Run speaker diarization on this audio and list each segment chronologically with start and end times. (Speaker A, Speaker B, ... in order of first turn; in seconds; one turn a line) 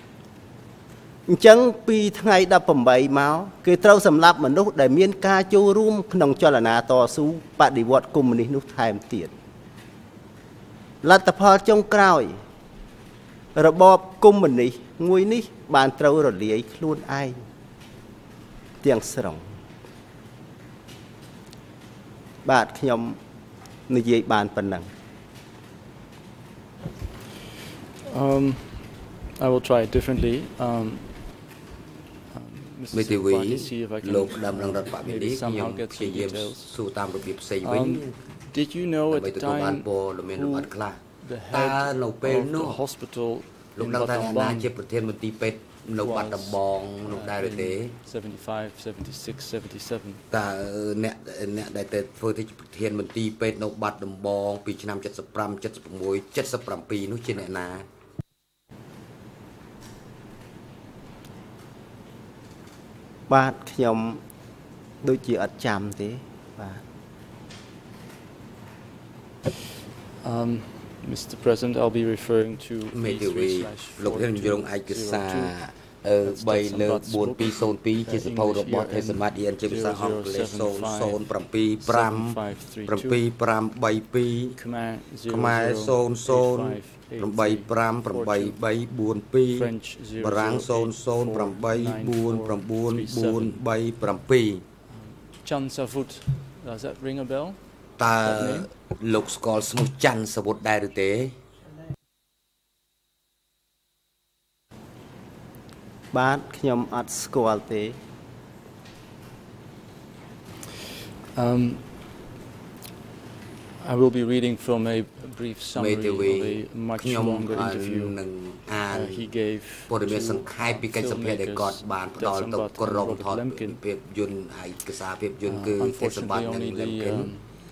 Speaker A: 1.3-9.3
Speaker A: 11.0-12.4
Speaker A: 13.6-17.4
Speaker A: 18.8-19.5
Speaker A: 22.4-23.2
Speaker A: 23.9-24.9
Speaker B: 28.1-31.4
Speaker B: 32.3-36.8
Speaker C: 32.9-38.1
Speaker B: 37.6-44.7
Speaker C: 39.1-41.0
Speaker C: 41.5-42.8
Speaker C: 43.8-48.0
Speaker B: 46.0-50.2
Speaker C: 50.3-57.9
Speaker A: 63.3-64.2
Speaker A: 65.0-66.8
Speaker B: 70.2-75.5
Speaker C: 72.9-84.5
Speaker B: 76.2-81.2
Speaker B: 81.8-83.2
Speaker B: 84.5-88.6
Speaker C: 85.2-94.6
Speaker B: 89.5-93.6
Speaker B: 94.9-97.6
Speaker C: 98.0-101.4
Speaker B: 98.2-98.7
Speaker A: 106.1-108.0
Speaker B: 111.3-111.9
Speaker B: 113.8-118.2
Speaker C: 115.7-119.3
Speaker B: 118.9-123.8
Speaker C: 119.9-127.3
Speaker B: 125.4-127.5